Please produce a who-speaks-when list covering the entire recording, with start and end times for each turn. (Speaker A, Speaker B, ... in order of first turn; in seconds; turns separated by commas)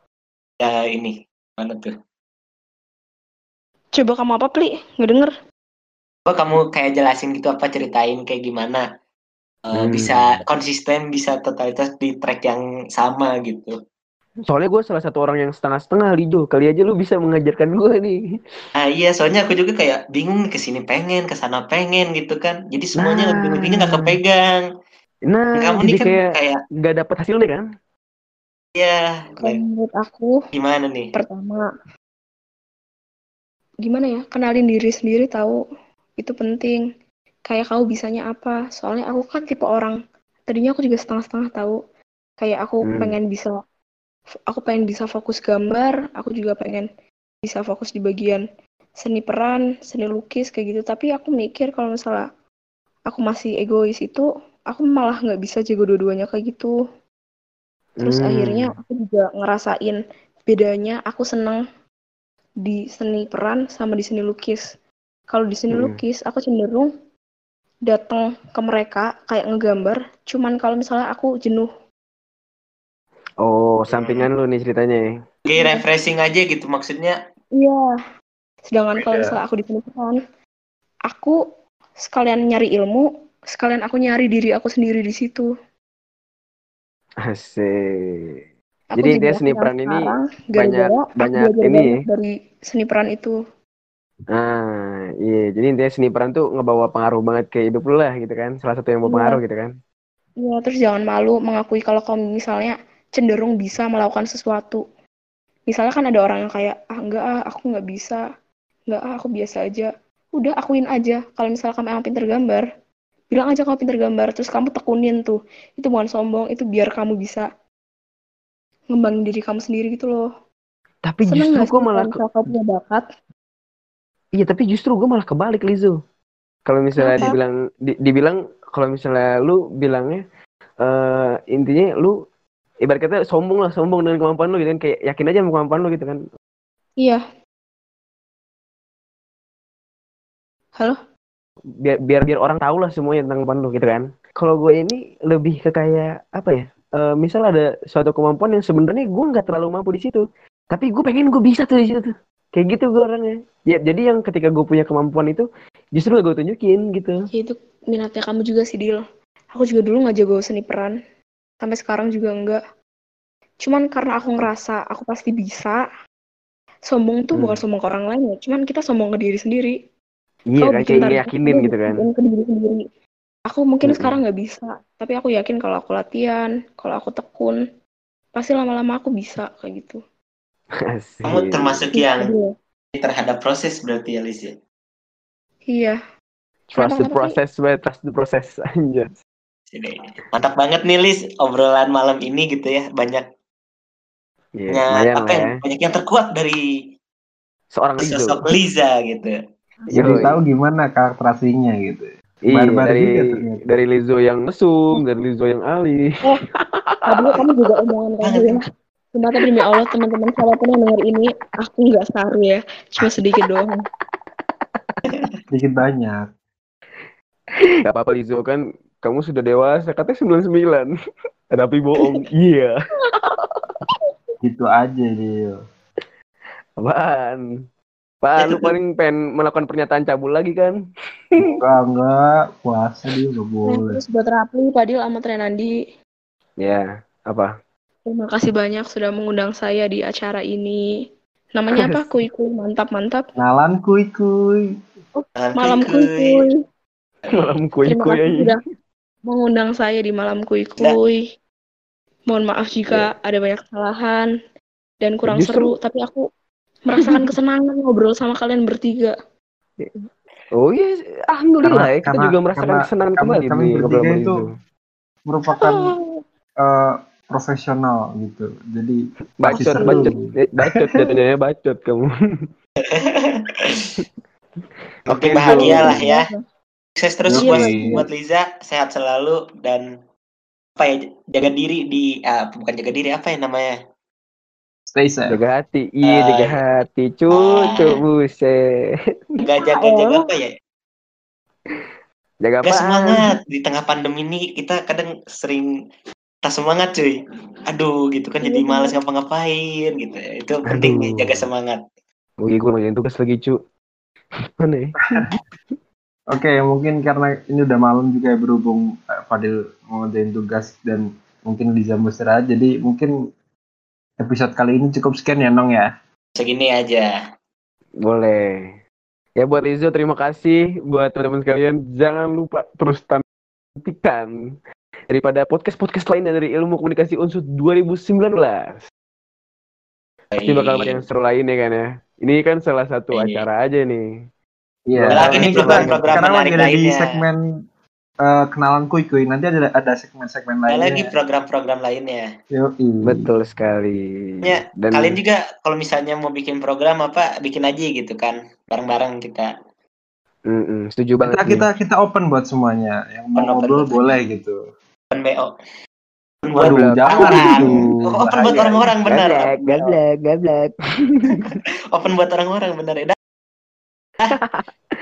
Speaker A: 0.6-1.9, Speaker B: 4.0-5.3, Speaker A: 6.3-8.8, Speaker A: 9.7-13.7, Speaker C: 9.7-10.4, Speaker C: 14.5-18.2, Speaker A: 18.8-24.6, Speaker C: 23.0-24.1, Speaker C: 25.3-26.3, Speaker A: 25.6-26.6, Speaker C: 26.8-27.6, Speaker A: 28.8-29.6, Speaker B: 29.4-30.4, Speaker A: 30.5-31.1, Speaker B: 31.1-31.7, Speaker B: 33.8-35.6, Speaker B: 36.2-36.8, Speaker B: 37.5-40.0, Speaker B: 40.5-41.8, Speaker B: 42.4-43.6, Speaker C: 42.8-43.1, Speaker B: 44.5-46.9, Speaker B: 47.4-48.4, Speaker B: 49.0-52.2, Speaker B: 53.1-56.7, Speaker C: 58.0-58.7, Speaker B: 58.0-61.6, Speaker B: 62.6-64.6, Speaker B: 65.3-66.9, Speaker C: 65.7-66.0, Speaker B: 67.9-71.7, Speaker C: 73.4-75.0, Speaker A: 73.9-74.3, Speaker A: 75.5-77.2, Speaker B: 75.5-75.8, Speaker B: 77.5-77.9, Speaker B: 78.7-80.2, Speaker D: 79.0-79.4, Speaker B: 81.1-81.4, Speaker B: 82.0-85.5, Speaker C: 87.2-88.4, Speaker B: 88.9-93.3, Speaker C: 89.0-92.0, Speaker C: 94.3-99.7, Speaker B: 99.0-99.4, Speaker B: 100.4-104.8, Speaker B: 105.7-108.2, Speaker B: 108.9-112.7, Speaker B: 113.3-117.5, Speaker B: 118.9-120.3, Speaker C: 121.0-122.5, Speaker B: 121.3-123.0, Speaker C: 124.4-126.0, Speaker C: 126.7-130.2, Speaker B: 127.0-127.4, Speaker C: 130.8-132.2, Speaker C: 132.8-136.2, Speaker C: 141.8-157.2, Speaker B: 157.3-159.0, Speaker B: 159.5-160.9, Speaker B: 161.6-162.6, Speaker B: 163.6-165.8, Speaker B: 166.9-169.8, Speaker C: 167.3-167.6, Speaker C: 170.5-172.1, Speaker B: 170.6-172.8, Speaker B: 173.5-177.6, Speaker C: 173.8-174.2, Speaker B: 178.3-180.0, Speaker C: 180.9-181.8, Speaker A: 181.3-182.3, Speaker B: 181.9-182.5, Speaker A: 182.9-184.5, Speaker B: 185.7-186.0, Speaker B: 186.7-187.4, Speaker C: 186.8-189.1, Speaker A: 189.7-193.2, Speaker C: 194.6-195.5, Speaker A: 194.7-196.6, Speaker C: 197.7-198.5, Speaker A: 198.0-199.3, Speaker B: 199.8-200.3, Speaker D: 199.9-203.6, Speaker C: 199.9-200.3, Speaker C: 202.5-207.2, Speaker B: 207.1-208.6, Speaker A: 208.2-208.6, Speaker B: 209.1-213.9, Speaker C: 214.5-215.0, Speaker D: 215.5-216.2, Speaker C: 217.8-220.9, Speaker C: 221.5-222.7, Speaker D: 224.4-225.6, Speaker C: 226.8-227.4, Speaker C: 228.2-230.7, Speaker C: 231.3-231.6, Speaker D: 231.4-234.0, Speaker B: 233.7-235.7, Speaker C: 236.6-237.5, Speaker B: 238.1-240.8, Speaker B: 241.5-243.3, Speaker C: 241.7-242.1, Speaker D: 243.4-244.7, Speaker B: 245.2-246.6, Speaker A: 245.4-246.5, Speaker C: 247.3-248.6, Speaker B: 247.8-248.6, Speaker B: 249.3-251.2, Speaker B: 252.3-254.3, Speaker B: 255.0-256.2, Speaker C: 255.3-255.7, Speaker B: 256.8-259.1, Speaker C: 257.0-257.3, Speaker C: 259.8-264.5, Speaker D: 261.6-264.4, Speaker D: 265.3-265.9, Speaker B: 265.5-266.2, Speaker D: 266.6-270.2, Speaker C: 269.4-272.5, Speaker B: 269.5-270.1, Speaker A: 272.9-273.9, Speaker A: 275.1-276.2, Speaker C: 275.1-276.0, Speaker B: 275.4-276.4, Speaker D: 275.6-275.9, Speaker A: 277.0-279.9, Speaker D: 277.3-278.0, Speaker B: 277.4-278.1, Speaker A: 280.8-283.7, Speaker D: 284.9-285.4, Speaker C: 285.3-288.6, Speaker A: 286.1-286.6, Speaker A: 287.4-287.9, Speaker A: 289.4-290.5, Speaker B: 289.6-290.2, Speaker C: 292.4-293.3, Speaker A: 292.6-295.7, Speaker A: 296.4-297.1, Speaker A: 297.7-301.8, Speaker B: 298.4-298.9, Speaker C: 300.7-301.4, Speaker C: 302.4-303.6, Speaker C: 304.6-305.4, Speaker D: 306.3-313.1, Speaker D: 314.2-315.9, Speaker A: 316.4-317.1, Speaker C: 318.0-318.8, Speaker C: 319.4-323.2, Speaker C: 323.8-324.3, Speaker C: 325.1-328.8, Speaker A: 330.3-331.0, Speaker C: 330.5-334.1, Speaker A: 333.1-333.4, Speaker D: 334.9-337.4, Speaker C: 334.9-336.1, Speaker A: 335.1-337.1, Speaker D: 338.2-341.1, Speaker A: 340.7-342.2, Speaker D: 342.5-343.3, Speaker C: 343.0-345.1, Speaker A: 344.4-349.5, Speaker C: 350.5-351.6, Speaker D: 351.2-354.6, Speaker A: 353.4-354.1, Speaker A: 355.1-355.5, Speaker A: 356.4-359.9, Speaker D: 356.5-358.9, Speaker C: 356.6-357.9, Speaker C: 359.1-361.4, Speaker A: 361.5-363.1, Speaker C: 364.3-364.7